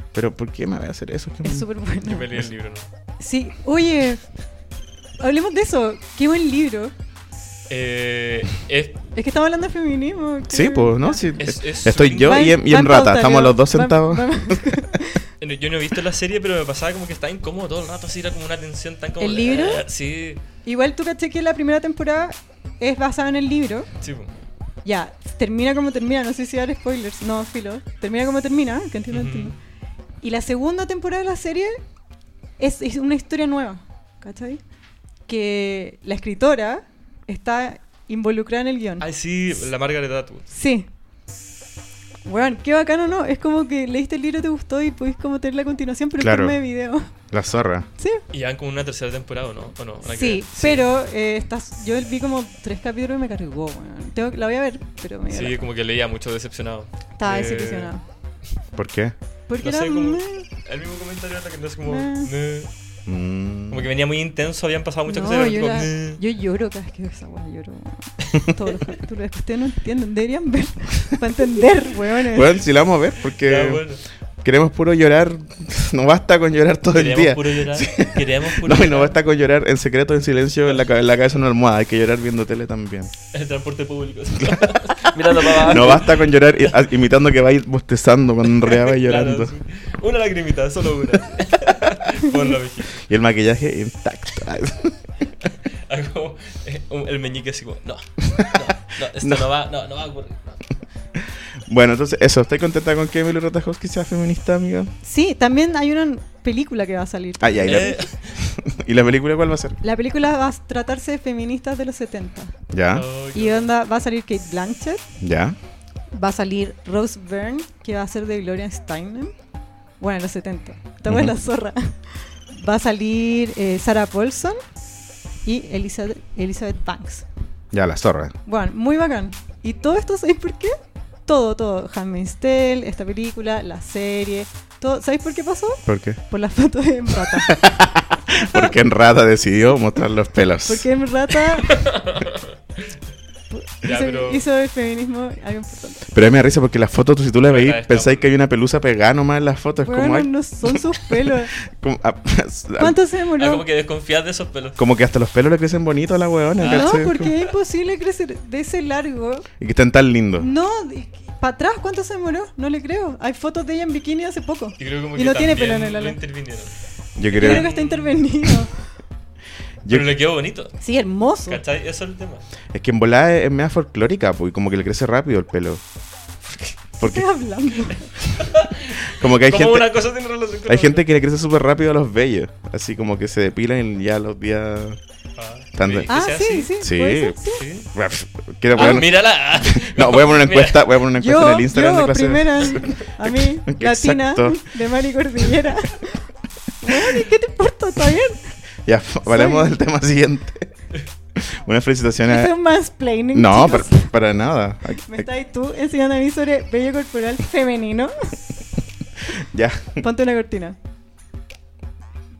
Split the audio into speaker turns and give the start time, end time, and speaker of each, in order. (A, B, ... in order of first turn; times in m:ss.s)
0:00.1-0:01.7 A
0:01.4-0:02.3 B
0:02.0-0:02.8 C
0:03.2-0:04.2 B
0:05.2-0:06.9 B
0:07.7-0:09.0 C
0:09.1-0:11.2 B
0:10.5-0:14.8 A
0:11.4-0:12.5 C
0:12.2-0:15.2 B
0:15.4-0:20.4 C
0:19.2-0:19.8 B
0:20.6-0:23.9 B
0:24.0-0:24.3 C
0:24.8-0:29.5 B
0:29.1-0:29.5 C
0:30.2-0:31.8 B
0:32.6-0:34.6 B
0:35.3-0:39.0 B
0:39.0-0:40.4 C
0:40.5-0:40.9 B
0:42.2-0:47.1 B
0:46.2-0:46.6 A
0:47.3-0:47.9 A
0:48.0-0:48.2 B
0:48.3-0:50.8 C
0:50.0-0:55.7 B
0:55.3-0:57.9 C
0:57.2-0:58.0 B
0:58.7-0:59.1 A
0:59.5-1:00.5 B
0:59.6-1:02.7 C
1:01.8-1:02.3 B
1:03.1-1:03.9 A
1:03.7-1:06.2 C
1:05.1-1:12.6 B
1:12.3-1:13.9 A
1:13.3-1:14.0 C
1:14.4-1:23.1 A
1:16.9-1:19.2 C
1:23.3-1:26.8 C
1:24.4-1:29.6 A
1:28.6-1:33.0 C
1:33.0-1:35.0 A
1:35.7-1:40.6 C
1:41.7-1:44.9 A
1:45.0-1:48.0 B
1:47.4-1:49.8 A
1:47.6-1:48.4 C
1:49.8-1:52.5 B
1:52.7-1:53.1 A
1:52.9-1:53.7 C
1:53.3-1:55.0 B
1:55.2-1:55.6 A
1:56.1-1:59.3 B
2:00.0-2:02.0 B
2:01.0-2:01.3 A
2:02.5-2:04.6 B
2:05.4-2:07.2 B
2:07.7-2:08.3 A
2:08.4-2:17.7 B
2:15.8-2:16.2 A
2:17.5-2:20.9 A
2:18.3-2:18.7 B
2:20.6-2:21.8 B
2:21.6-2:23.0 C
2:23.5-2:26.0 B
2:23.8-2:24.4 C
2:26.1-2:33.0 A
2:27.5-2:28.3 C
2:29.8-2:31.5 B
2:32.8-2:33.6 B
2:33.4-2:34.8 C
2:34.8-2:37.3 A
2:36.6-2:37.4 C
2:36.6-2:39.5 B
2:39.6-2:40.5 A
2:40.4-2:46.2 B
2:44.8-2:48.2 C
2:47.2-2:47.7 A
2:47.3-2:48.8 B
2:49.8-2:50.1 A
2:49.9-2:50.8 C
2:50.8-2:51.6 B
2:51.5-2:52.4 C
2:52.7-2:55.8 A
2:57.0-2:57.2 A
2:57.0-2:58.1 B
2:58.4-3:01.0 C
2:59.1-2:59.9 A
3:00.7-3:05.0 A
3:05.4-3:06.7 C
3:05.7-3:06.2 A
3:06.1-3:07.6 B
3:06.8-3:07.4 A
3:07.6-3:07.9 C
3:07.9-3:14.6 A
3:08.7-3:10.9 C
3:11.1-3:16.3 B
3:16.8-3:18.5 B
3:18.8-3:20.7 A
3:19.2-3:19.7 B
3:21.3-3:22.5 A
3:22.2-3:24.1 B
3:23.3-3:25.3 A
3:25.0-3:28.3 B
3:29.3-3:30.0 A
3:30.0-3:30.8 B